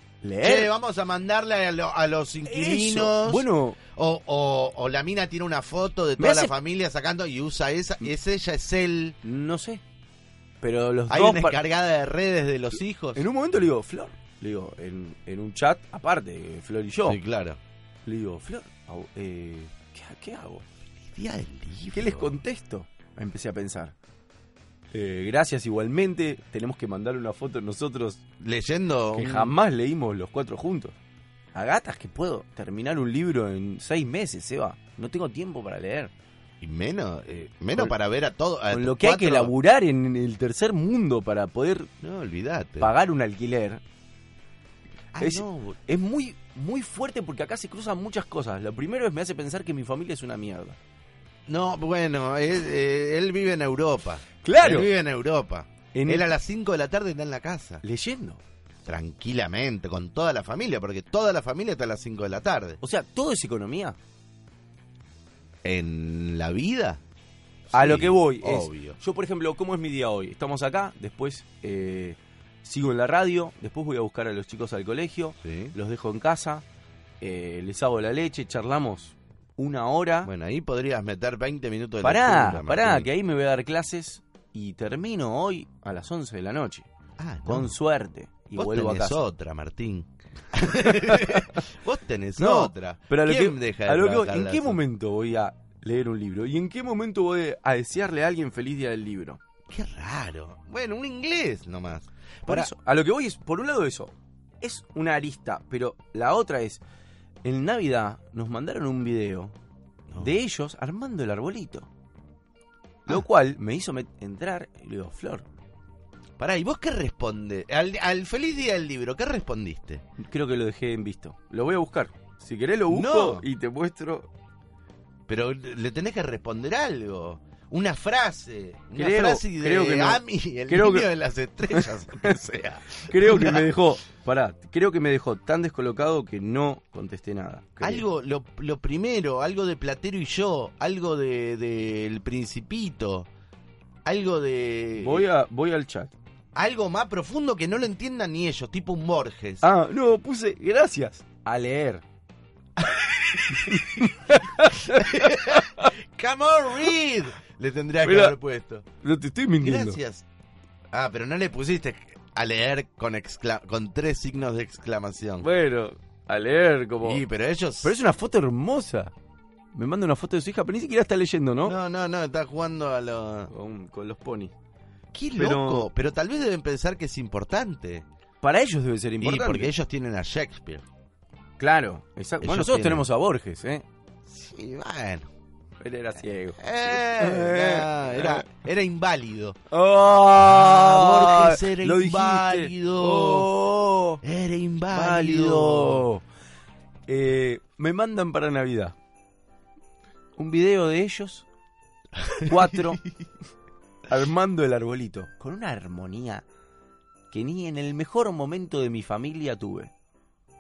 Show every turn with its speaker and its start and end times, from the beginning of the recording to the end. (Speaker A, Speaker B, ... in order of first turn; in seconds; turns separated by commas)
Speaker A: 0.2-0.7, Speaker B: 0.4-9.2, Speaker A: 2.4-3.8, Speaker A: 6.2-6.5, Speaker A: 9.2-9.8, Speaker A: 10.6-11.6, Speaker B: 11.1-13.3, Speaker A: 13.2-17.2, Speaker B: 17.1-17.6, Speaker A: 18.1-20.6, Speaker B: 21.1-22.4, Speaker A: 21.9-23.9, Speaker A: 24.9-28.2, Speaker B: 28.4-29.6, Speaker A: 29.1-30.9, Speaker A: 31.5-36.1, Speaker B: 36.6-39.5, Speaker A: 38.7-41.9, Speaker B: 42.0-42.9, Speaker A: 42.8-43.8, Speaker B: 45.1-45.8, Speaker A: 45.2-50.8, Speaker B: 51.5-57.8, Speaker A: 54.4-54.9, Speaker A: 55.9-56.3, Speaker A: 57.8-58.4, Speaker B: 58.9-62.8, Speaker A: 62.8-64.0, Speaker B: 65.6-67.0, Speaker B: 67.7-69.0, Speaker A: 67.7-76.7, Speaker B: 75.4-75.7, Speaker A: 77.2-80.3, Speaker B: 80.2-83.1, Speaker A: 82.0-86.9, Speaker B: 87.2-87.8, Speaker A: 87.5-89.2, Speaker B: 88.5-94.8, Speaker A: 90.8-91.6, Speaker A: 92.4-99.4, Speaker B: 99.7-102.7, Speaker A: 102.5-106.8, Speaker A: 107.4-109.5, Speaker B: 110.1-110.3, Speaker A: 110.2-111.9, Speaker A: 113.1-115.5, Speaker B: 116.4-120.0, Speaker A: 120.2-124.3, Speaker B: 122.9-123.5, Speaker B: 125.3-133.7, Speaker A: 129.0-131.1, Speaker A: 131.7-132.4, Speaker A: 133.0-138.1, Speaker B: 137.8-143.3, Speaker B: 144.1-145.3, Speaker A: 145.0-146.1, Speaker B: 146.6-149.7, Speaker A: 149.6-152.0, Speaker B: 152.8-158.9, Speaker A: 153.4-155.9, Speaker A: 158.0-158.4, Speaker A: 159.0-160.0, Speaker B: 159.6-160.2, Speaker B: 160.9-165.5, Speaker A: 165.4-167.2, Speaker B: 167.0-168.0, Speaker A: 167.8-169.1, Speaker A: 169.7-171.8, Speaker B: 171.6-173.5, Speaker A: 173.5-174.5, Speaker B: 175.1-178.1, Speaker A: 175.4-175.9, Speaker A: 178.4-179.7, Speaker B: 179.2-180.8, Speaker A: 181.6-183.8, Speaker B: 182.4-183.1, Speaker B: 184.3-185.3, Speaker A: 185.8-188.5, Speaker B: 186.6-189.6, Speaker A: 189.7-194.2, Speaker B: 190.4-193.5, Speaker B: 194.2-196.1, Speaker A: 194.9-196.2, Speaker A: 197.1-198.9, Speaker A: 200.4-201.5, Speaker B: 202.2-202.5, Speaker A: 202.4-203.0, Speaker A: 204.1-206.4, Speaker A: 207.3-209.9